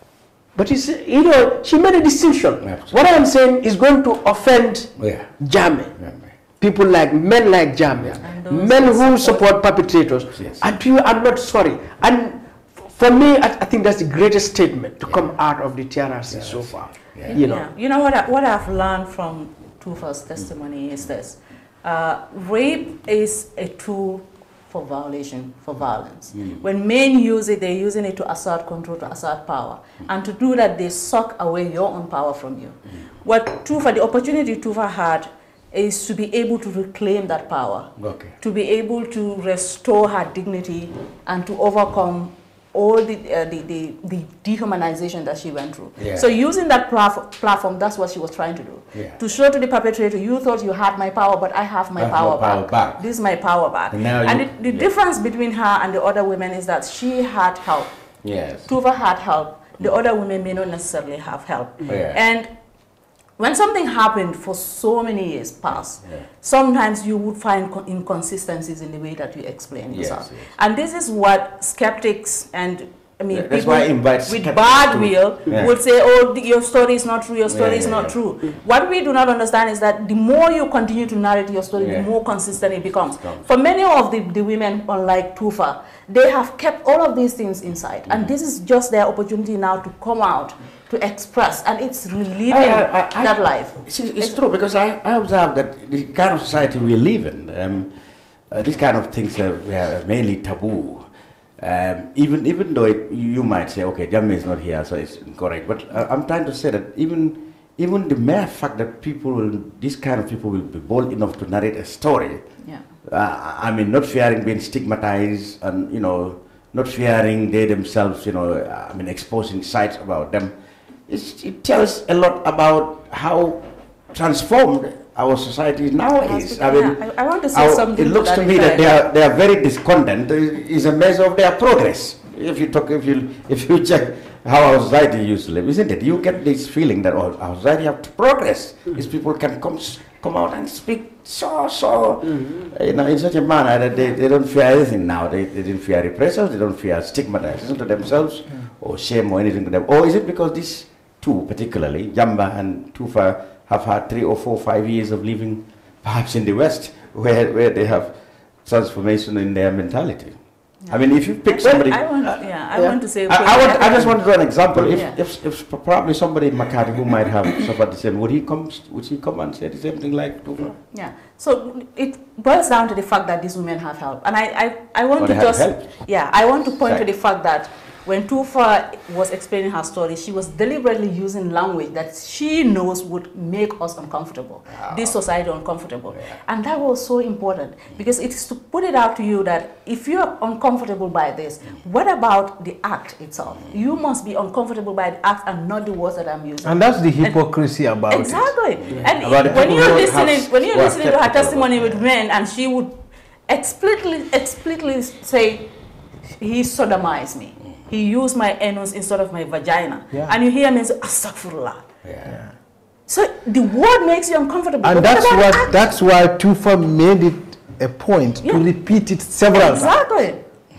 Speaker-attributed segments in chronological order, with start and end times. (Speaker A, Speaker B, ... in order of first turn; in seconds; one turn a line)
Speaker A: 0.5-5.9
Speaker B: 2.6-3.2
Speaker B: 5.0-5.3
Speaker B: 6.0-6.3
Speaker A: 6.6-17.6
Speaker C: 8.2-9.5
Speaker B: 10.3-10.6
Speaker B: 16.3-17.4
Speaker C: 17.4-57.9
Speaker B: 38.0-38.3
Speaker B: 46.0-46.3
Speaker B: 52.0-53.0
Speaker B: 53.9-54.9
Speaker B: 58.2-58.7
Speaker C: 58.7-62.5
Speaker B: 61.9-62.2
Speaker C: 63.4-94.4
Speaker B: 65.7-66.2
Speaker B: 69.9-70.5
Speaker B: 73.3-75.7
Speaker B: 77.5-78.2
Speaker B: 81.8-82.1
Speaker B: 83.2-83.5
Speaker B: 88.1-88.3
Speaker B: 92.5-97.9
Speaker B: 98.5-101.0
Speaker B: 101.6-112.5
Speaker B: 113.0-120.5
Speaker B: 121.1-158.1
Speaker C: 126.2-129.1
Speaker A: 142.2-142.6
Speaker B: 158.6-160.4
Speaker C: 160.8-164.2
Speaker B: 160.9-162.1
Speaker A: 161.6-163.0
Speaker B: 163.3-170.7
Speaker C: 164.8-165.2
Speaker C: 170.9-197.4
Speaker B: 175.2-175.9
Speaker B: 184.8-185.1
Speaker D: 196.6-198.6
Speaker C: 198.1-205.7
Speaker B: 198.9-202.0
Speaker D: 199.4-199.7
Speaker C: 206.4-211.8
Speaker B: 212.0-212.3
Speaker C: 213.1-215.7
Speaker D: 214.8-219.9
Speaker C: 218.4-218.7
Speaker C: 219.5-220.4